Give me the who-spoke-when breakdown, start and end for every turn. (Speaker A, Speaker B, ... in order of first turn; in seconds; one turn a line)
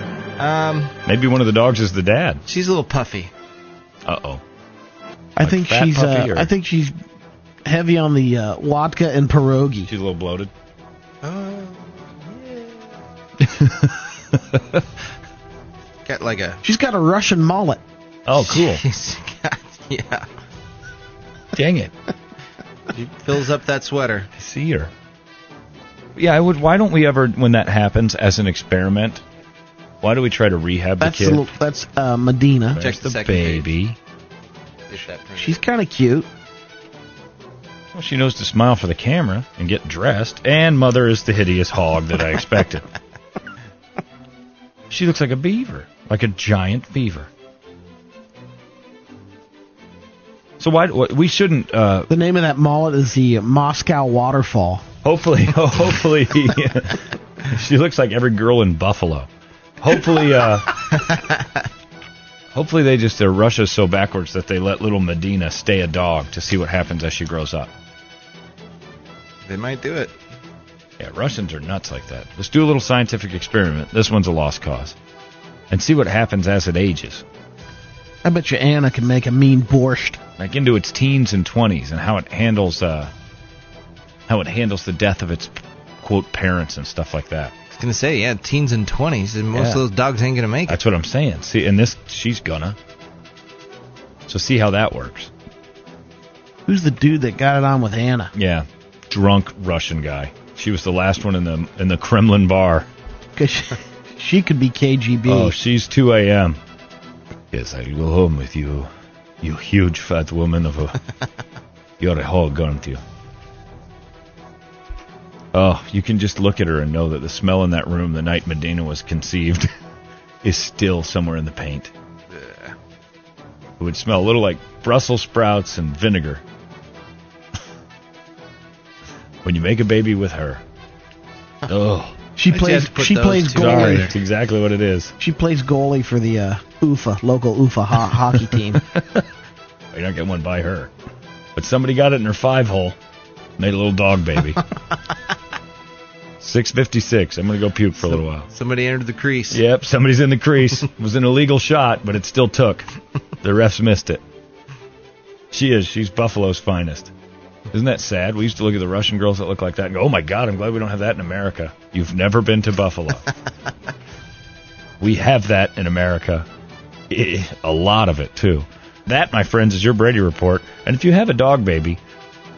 Speaker A: 0.4-0.9
Speaker B: 1.1-2.4
Speaker A: 2.5-3.3
Speaker B: 4.0-4.4
Speaker C: 5.3-7.0
Speaker B: 5.4-6.5
Speaker C: 7.7-9.9
Speaker B: 9.9-10.5
Speaker A: 11.2-12.8
Speaker B: 13.4-14.8
Speaker A: 16.1-16.6
Speaker C: 16.6-17.8
Speaker B: 18.2-18.8
Speaker A: 18.4-20.3
Speaker B: 21.5-21.9
Speaker A: 22.9-24.3
Speaker B: 24.4-24.9
Speaker B: 26.1-29.2
Speaker B: 30.0-31.4
Speaker C: 31.0-32.8
Speaker B: 32.7-34.0
Speaker A: 32.8-33.7
Speaker A: 34.9-35.6
Speaker C: 35.4-36.3
Speaker B: 37.9-42.9
Speaker B: 44.9-47.3
Speaker B: 50.6-52.1
Speaker C: 52.1-54.8
Speaker B: 55.0-59.3
Speaker B: 59.8-60.9
Speaker A: 60.9-61.3
Speaker B: 62.5-67.7
Speaker A: 69.4-70.1
Speaker B: 71.0-75.0
Speaker B: 75.7-77.2
Speaker C: 78.2-80.2
Speaker B: 80.4-83.1
Speaker B: 84.3-87.5
Speaker A: 87.7-90.8
Speaker B: 89.5-89.8
Speaker B: 90.7-92.8
Speaker B: 94.3-95.3
Speaker C: 96.7-98.3
Speaker B: 98.3-102.9
Speaker C: 103.3-105.5
Speaker B: 105.3-106.6
Speaker B: 107.5-108.9
Speaker B: 109.4-111.0
Speaker B: 112.0-113.0
Speaker B: 115.5-119.7
Speaker B: 120.4-121.9
Speaker A: 122.3-122.7
Speaker B: 123.8-126.4
Speaker B: 129.4-130.6
Speaker B: 131.7-132.1
Speaker C: 132.3-134.1
Speaker A: 132.5-134.1
Speaker B: 133.5-135.1
Speaker C: 135.2-138.8
Speaker B: 138.9-139.2
Speaker B: 139.9-140.9
Speaker B: 141.6-142.9
Speaker B: 143.6-144.6
Speaker B: 146.4-148.5
Speaker A: 148.1-149.6
Speaker B: 149.5-152.9
Speaker B: 153.4-154.2
Speaker B: 155.5-157.1
Speaker B: 157.7-163.3
Speaker B: 165.0-166.4
Speaker B: 167.1-172.0